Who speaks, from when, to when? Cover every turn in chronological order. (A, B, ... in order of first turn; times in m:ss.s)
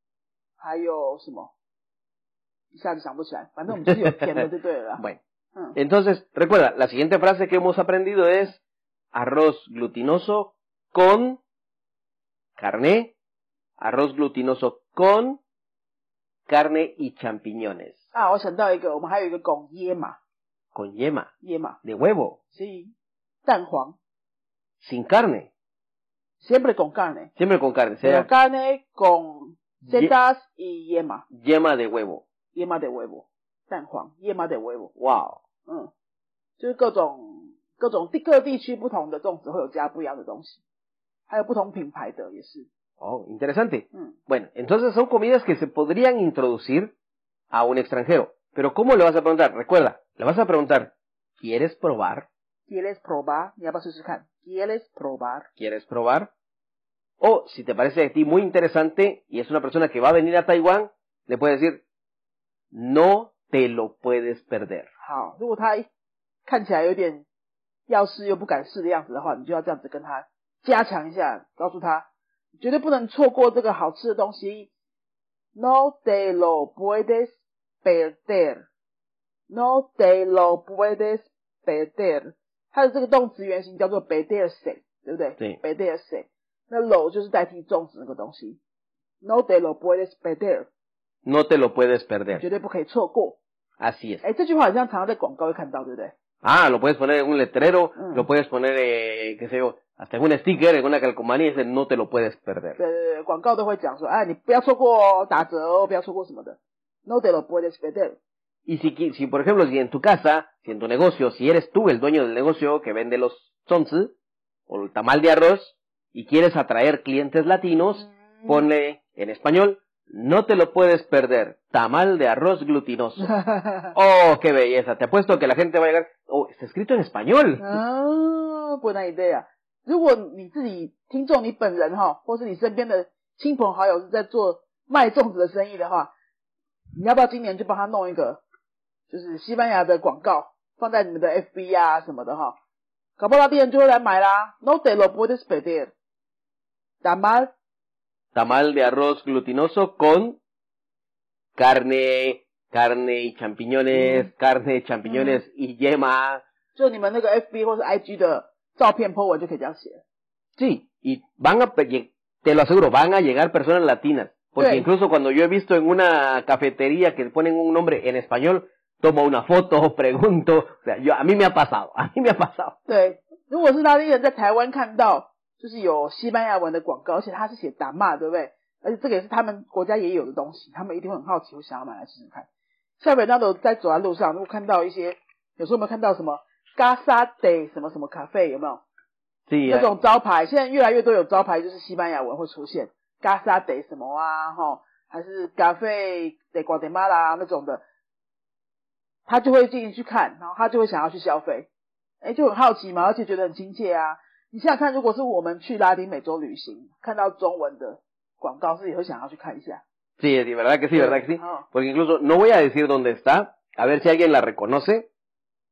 0:00.6-0:01.5 A
0:02.7-0:05.0 A
0:03.7-0:04.4 B
0:05.7-0:08.6 B
0:09.1-0:11.4 B
0:12.6-0:13.1 B
0:13.8-0:15.4 B
0:16.5-0:18.0 B
0:18.1-0:20.2 A
0:20.7-0:21.3 B
0:21.4-0:21.8 A
0:21.8-0:22.4 B
0:22.5-0:22.9 A
0:23.4-0:24.0 A
0:24.8-0:25.5 B
0:26.4-0:27.3 A
0:27.4-0:28.3 B
0:28.0-0:31.2 A
0:29.8-0:30.1 B
0:31.3-0:32.2 B
0:32.5-0:34.9 A
0:35.0-0:35.4 B
0:35.6-0:35.9 A
0:36.6-0:40.6 A
0:41.3-0:42.7 A
0:43.0-0:46.9 B
0:47.5-0:52.3 B
0:52.7-0:55.5 A
0:55.6-0:56.3 B
0:57.2-1:01.8 B
1:02.7-1:04.9 B
1:05.0-1:05.9 A
1:06.4-1:07.2 A
1:07.9-1:12.1 A
1:12.6-1:14.7 A
1:15.5-1:18.6 A
1:19.5-1:28.6 A
1:29.2-1:30.7 A
1:31.2-1:32.4 B
1:32.3-1:33.4 A
1:33.8-1:34.2 B
1:34.2-1:36.1 A
1:36.4-1:42.8 B
1:38.0-1:38.3 A
1:42.8-1:48.2 A
1:48.6-1:54.1 B
1:54.7-2:03.3 B
1:58.0-1:58.6 A
2:03.2-2:03.9 A
2:03.9-2:07.8 B
2:07.6-2:16.1 A
2:17.0-2:18.4 A
2:19.1-2:22.6 A
2:23.2-2:25.9 A
2:27.0-2:27.5 A
2:28.3-2:30.4 B
2:31.6-2:36.4 B
2:33.9-2:34.3 A
2:35.0-2:35.4 A
2:36.7-2:40.0 A
2:40.6-2:52.8 B
2:44.6-2:44.9 A
2:52.9-3:02.5 A
3:03.0-3:08.8 A
3:09.5-3:09.9 B
3:09.6-3:17.8 A
3:19.2-3:21.7 A
3:22.2-3:29.8 A
3:30.2-3:35.1 B
3:30.9-3:31.6 A